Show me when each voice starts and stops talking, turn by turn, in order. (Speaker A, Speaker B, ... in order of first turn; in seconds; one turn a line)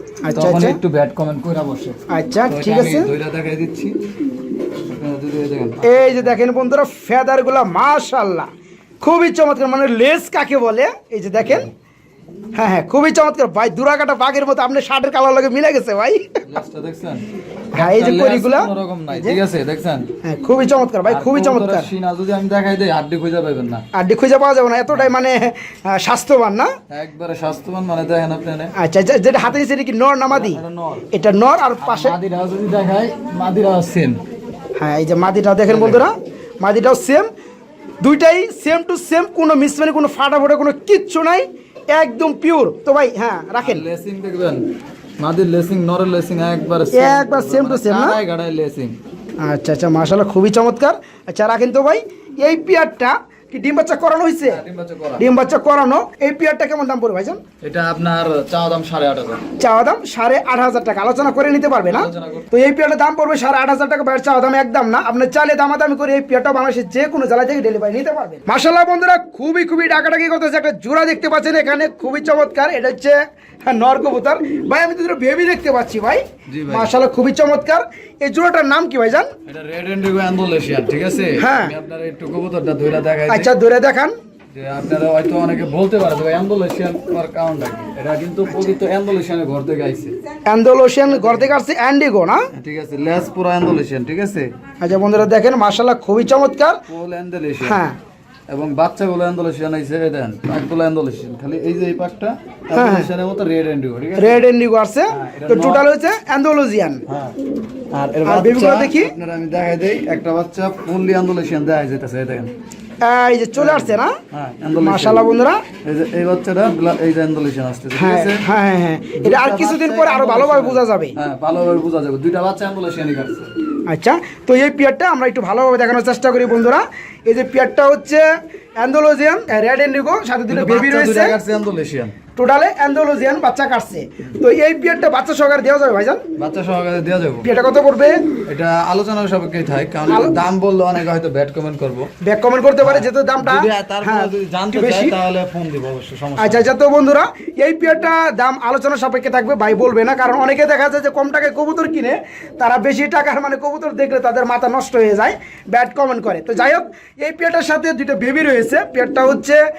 Speaker A: 0.2-0.8
Speaker B: 0.3-4.0
Speaker A: 2.1-3.1
Speaker B: 4.7-6.3
Speaker A: 5.8-8.5
Speaker A: 9.0-11.7
Speaker B: 11.4-11.7
Speaker A: 12.6-16.4
Speaker B: 16.5-20.1
Speaker A: 17.7-19.4
Speaker A: 20.2-21.9
Speaker B: 21.1-23.8
Speaker A: 23.9-26.7
Speaker B: 26.9-28.7
Speaker A: 28.8-30.6
Speaker B: 30.3-31.1
Speaker A: 31.1-32.2
Speaker B: 31.8-34.2
Speaker A: 34.8-37.3
Speaker B: 35.7-36.1
Speaker A: 38.0-43.9
Speaker B: 43.6-44.7
Speaker B: 45.2-49.0
Speaker A: 46.9-48.2
Speaker A: 49.4-54.6
Speaker B: 54.4-55.3
Speaker A: 55.2-57.4
Speaker B: 57.6-59.4
Speaker A: 59.6-79.3
Speaker B: 61.9-62.5
Speaker B: 76.5-76.9
Speaker B: 79.5-83.5
Speaker A: 81.4-81.8
Speaker A: 83.3-84.1
Speaker B: 84.5-90.2
Speaker A: 90.5-92.5
Speaker B: 91.1-91.5
Speaker B: 92.5-94.5
Speaker A: 94.8-96.8
Speaker B: 96.9-97.8
Speaker A: 97.6-98.0
Speaker B: 98.5-104.5
Speaker A: 102.7-103.1
Speaker A: 104.2-107.0
Speaker B: 105.1-105.9
Speaker B: 107.1-107.4
Speaker B: 107.9-112.5
Speaker A: 108.2-109.1
Speaker A: 113.0-114.1
Speaker B: 113.6-115.2
Speaker A: 114.8-115.6
Speaker B: 115.8-118.5
Speaker A: 118.0-121.2
Speaker B: 119.2-123.5
Speaker A: 123.9-128.2
Speaker A: 128.8-131.4
Speaker B: 130.5-132.2
Speaker A: 132.4-136.2
Speaker B: 136.4-137.5
Speaker A: 137.4-138.2
Speaker B: 138.5-142.1
Speaker A: 140.1-140.4
Speaker A: 142.2-145.2
Speaker B: 142.8-146.7
Speaker A: 146.4-159.6